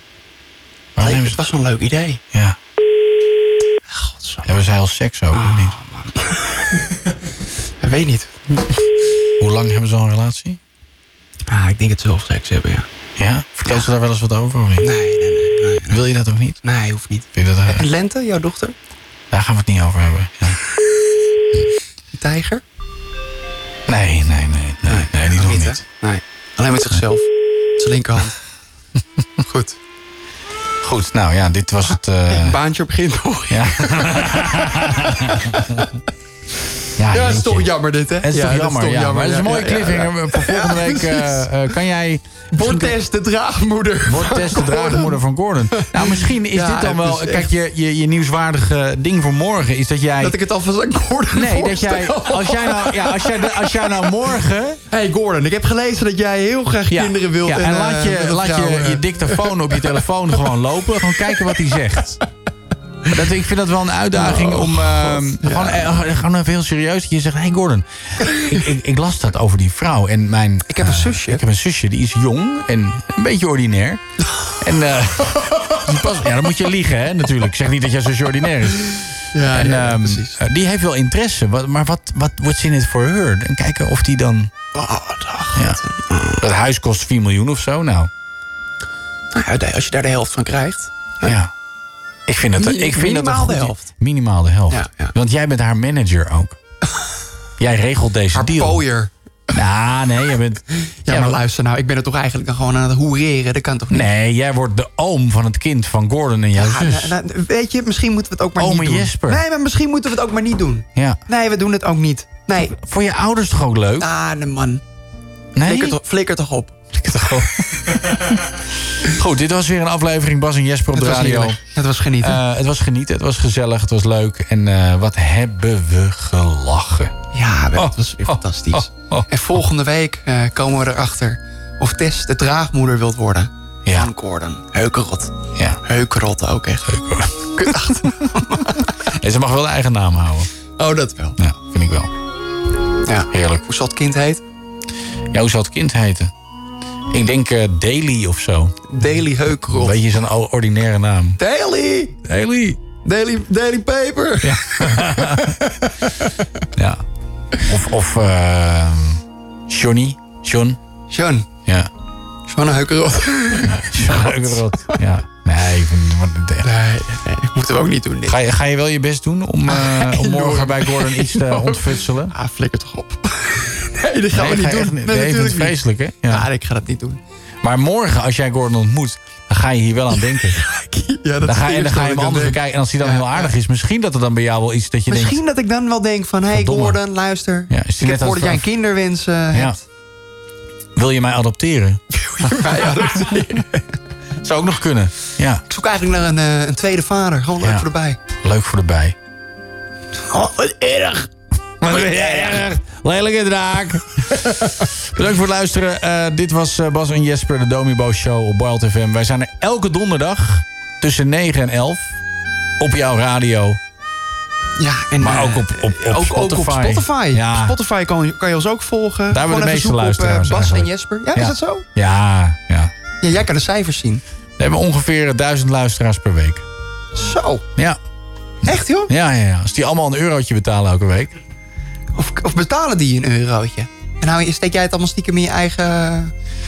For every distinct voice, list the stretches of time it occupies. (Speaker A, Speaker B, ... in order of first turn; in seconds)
Speaker A: 0.9-1.4, 4.4-5.8, 9.4-10.6, 13.2-14.9, 15.9-16.6, 17.3-17.9, 19.3-20.6, 23.9-25.8, 30.8-32.6, 33.5-35.8, 37.0-37.7, 38.2-43.0, 44.0-50.4, 51.3-54.8, 56.9-62.2, 63.1-74.0, 74.6-79.0, 79.5-84.5, 86.4-88.1, 91.2-91.5, 92.3-96.5, 97.6-98.8, 99.5-101.4, 103.9-107.2, 108.6-109.4, 112.6-114.1, 115.5-116.0, 116.9-117.5, 118.0-118.3, 119.1-121.6, 122.2-127.1, 127.8-129.3, 136.9-137.5, 139.2-140.5, 141.4-142.1, 143.3-143.6, 145.3-146.3, 147.1-148.8, 149.5-151.4, 152.2-152.8, 154.4-155.5, 156.8-157.0, 157.7-160.8, 163.7-166.7, 168.3-172.3, 174.3-176.5, 177.6-180.6, 181.4-185.4, 186.5-187.0, 187.7-188.7, 189.5-189.8, 190.9-192.0, 194.4-195.6, 197.6-197.9, 198.4-199.1, 201.8-212.1, 212.8-213.8, 215.2-217.8, 219.3-222.9, 224.6-226.6, 228.7-231.4
Speaker B: 1.0-2.2, 3.9-4.5, 5.3-6.6, 7.8-8.6, 11.5-12.8, 14.8-16.0, 16.6-18.7, 22.1-22.6, 24.9-28.3, 29.4-29.8, 32.3-34.6, 37.1-41.5, 42.5-45.2, 45.9-47.5, 50.2-53.3, 54.9-59.4, 64.1-66.0, 70.7-71.4, 79.3-80.4, 84.7-86.4, 89.3-91.3, 92.6-93.9, 94.7-95.1, 98.3-99.1, 101.0-104.1, 106.5-112.7, 114.0-114.8, 115.6-116.8, 120.9-122.4, 127.3-135.3, 135.8-136.9, 137.5-138.9, 140.8-141.4, 143.0-144.4, 148.9-150.0, 151.4-152.2, 153.0-155.5, 161.1-161.5, 162.5-164.6, 166.6-168.4, 169.7-177.2, 180.5-183.5, 185.1-189.8, 192.2-193.8, 195.7-198.2, 200.3-201.3, 201.9-202.6, 214.8-221.8, 223.2-224.2, 227.1-227.6, 228.6-229.1, 232.1-236.3